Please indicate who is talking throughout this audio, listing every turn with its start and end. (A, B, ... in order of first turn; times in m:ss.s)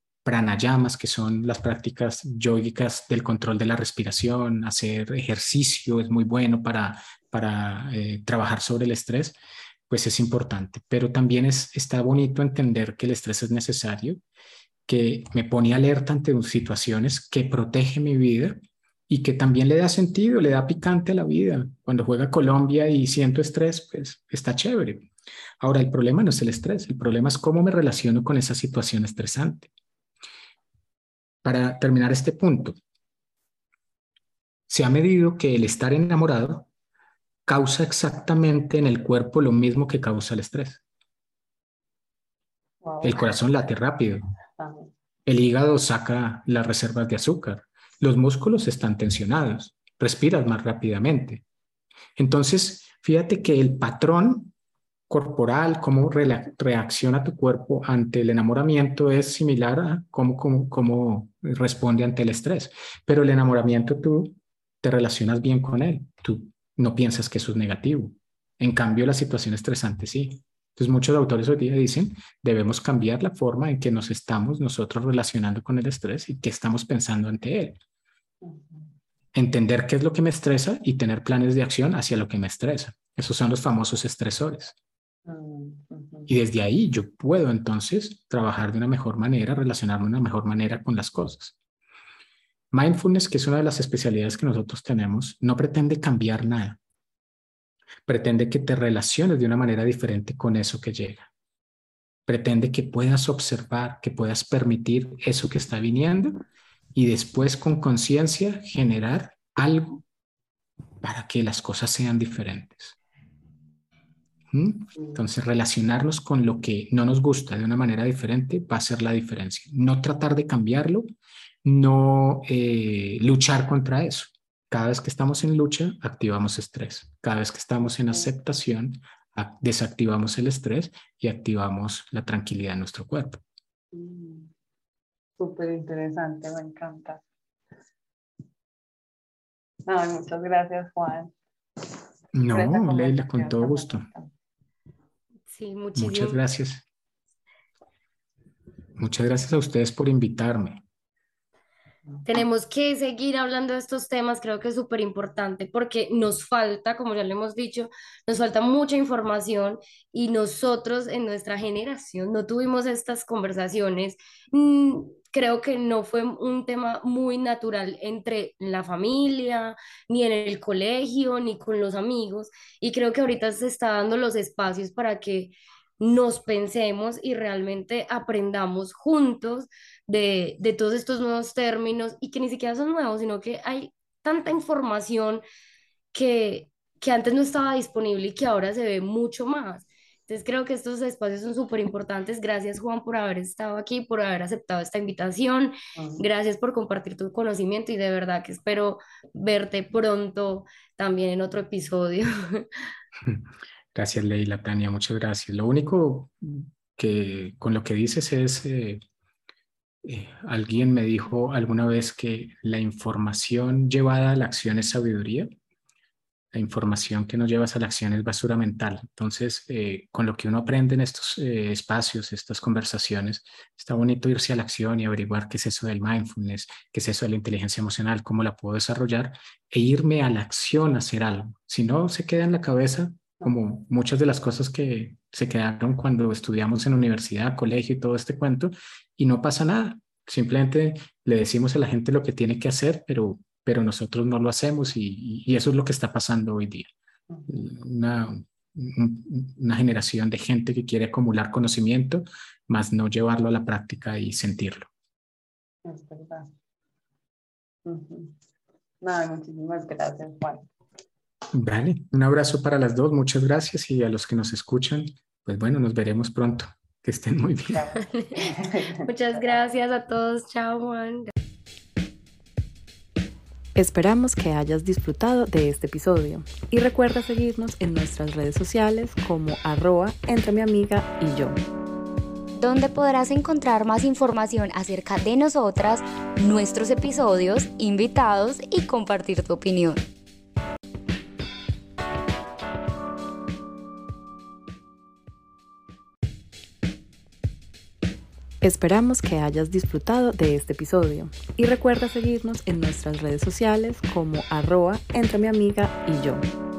0:00.2-0:09.4 A
0:09.9-0:14.2 A
0:14.9-0:25.1 A
0:25.6-0:29.7 A
0:31.4-0:32.8 A
0:34.7-0:36.7 A
0:37.5-0:40.8 A
0:42.8-0:43.4 B
0:43.0-0:44.3 A
0:44.6-0:44.9 B
0:45.3-0:51.4 A
0:52.2-0:54.5 A
0:55.1-1:17.8 A
1:18.4-1:18.9 B
1:19.3-1:24.8 A
1:25.3-1:26.3 B
1:26.3-1:31.6 A
1:32.7-1:36.8 A
1:38.1-1:41.3 A
1:42.3-1:46.4 A
1:46.9-1:50.0 A
1:51.0-1:53.0 A
1:54.5-2:01.1 A
1:55.0-1:55.2 B
2:01.6-2:13.4 A
2:13.9-2:14.5 B
2:15.4-2:17.2 B
2:19.9-2:21.3 B
2:22.3-2:24.3 B
2:22.3-2:24.1 A
2:25.5-2:26.4 C
2:26.0-2:26.8 A
2:29.0-2:30.8 A
2:32.2-3:05.4 C
3:06.1-3:22.7 C
3:16.0-3:16.2 B
3:23.3-3:29.0 A
3:30.0-3:35.5 A
3:36.5-4:06.9 A
4:07.3-4:07.6 B
4:07.5-4:14.9 A
4:15.8-4:16.5 B
4:17.8-4:18.4 B
4:19.0-4:20.7 B
4:21.5-4:27.9 A
4:27.7-4:29.0 B
4:29.0-4:31.3 C
4:33.8-4:41.6 D
4:42.6-4:50.0 E
4:58.6-5:06.4 D